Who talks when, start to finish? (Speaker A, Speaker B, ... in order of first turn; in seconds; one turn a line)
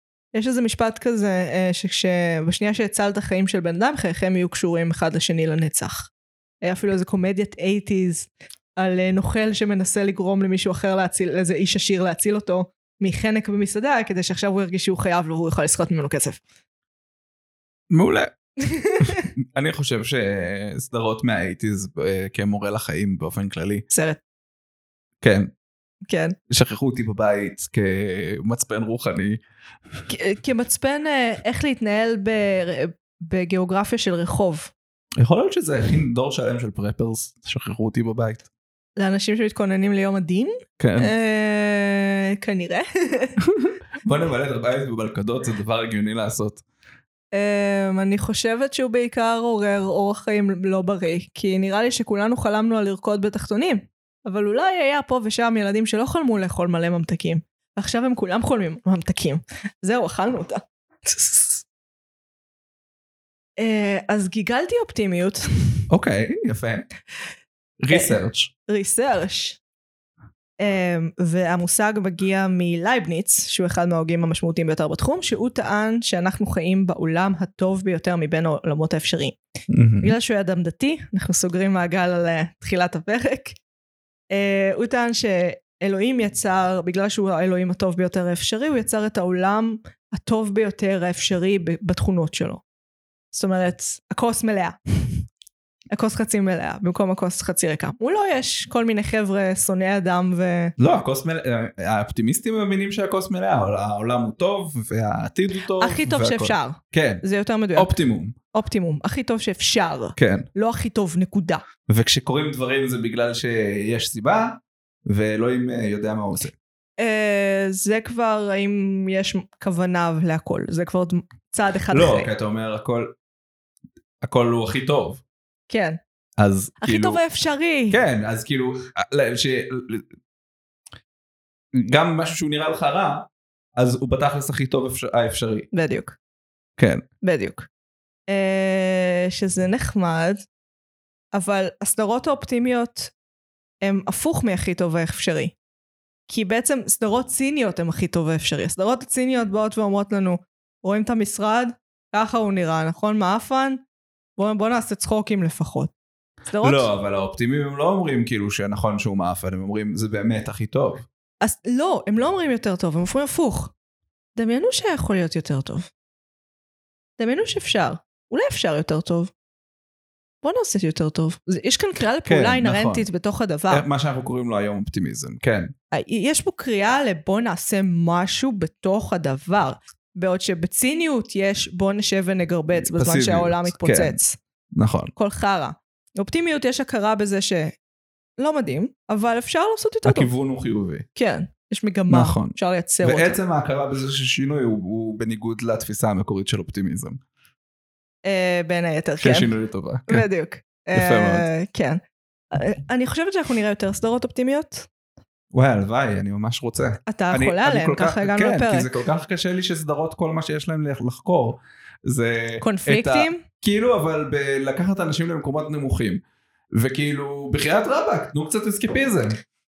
Speaker A: 0.3-6.1
Speaker A: 6.6-16.4
Speaker B: 17.9-18.3
Speaker A: 18.7-19.2
Speaker B: 19.0-23.8
Speaker A: 23.9-24.2
Speaker B: 25.2-25.5
Speaker A: 26.1-26.4
Speaker B: 26.5-29.4
Speaker A: 30.1-34.7
Speaker B: 35.2-38.5
Speaker A: 39.0-43.4
Speaker B: 40.8-41.1
Speaker B: 44.0-46.6
Speaker A: 47.3-61.6
Speaker A: 63.6-65.8
Speaker B: 65.9-66.9
Speaker B: 67.8-68.5
Speaker A: 67.9-69.6
Speaker A: 70.6-79.4
Speaker B: 79.7-80.2
Speaker A: 80.0-83.5
Speaker A: 84.3-92.6
Speaker A: 93.3-95.1
Speaker A: 95.9-100.7
Speaker B: 100.8-107.2
Speaker A: 105.8-108.0
Speaker B: 107.8-108.4
Speaker A: 108.5-111.6
Speaker B: 110.2-110.5
Speaker B: 111.9-116.5
Speaker A: 117.0-122.3
Speaker B: 121.9-123.1
Speaker B: 124.2-125.2
Speaker A: 125.7-126.0
Speaker B: 126.4-127.2
Speaker A: 126.8-128.0
Speaker B: 127.9-130.1
Speaker B: 131.7-135.7
Speaker A: 135.7-136.2
Speaker B: 136.8-137.1
Speaker A: 137.2-137.7
Speaker A: 138.3-140.4
Speaker A: 141.3-143.1
Speaker A: 143.8-145.5
Speaker A: 146.3-153.8
Speaker A: 154.4-155.9
Speaker A: 156.5-156.9
Speaker B: 156.6-161.1
Speaker A: 161.4-163.7
Speaker A: 164.4-165.9
Speaker A: 167.2-169.3
Speaker A: 170.4-173.9
Speaker B: 172.2-173.1
Speaker B: 173.7-175.7
Speaker A: 175.9-184.4
Speaker B: 182.8-184.2
Speaker B: 184.8-185.1
Speaker A: 185.2-187.7
Speaker A: 188.4-190.3
Speaker B: 190.1-191.1
Speaker A: 191.2-193.4
Speaker B: 192.1-197.2
Speaker A: 198.3-199.5
Speaker B: 199.2-200.3
Speaker A: 200.1-202.0
Speaker B: 200.9-201.5
Speaker A: 202.5-204.9
Speaker B: 205.5-216.2
Speaker A: 207.1-209.0
Speaker A: 212.6-213.4
Speaker B: 216.7-219.4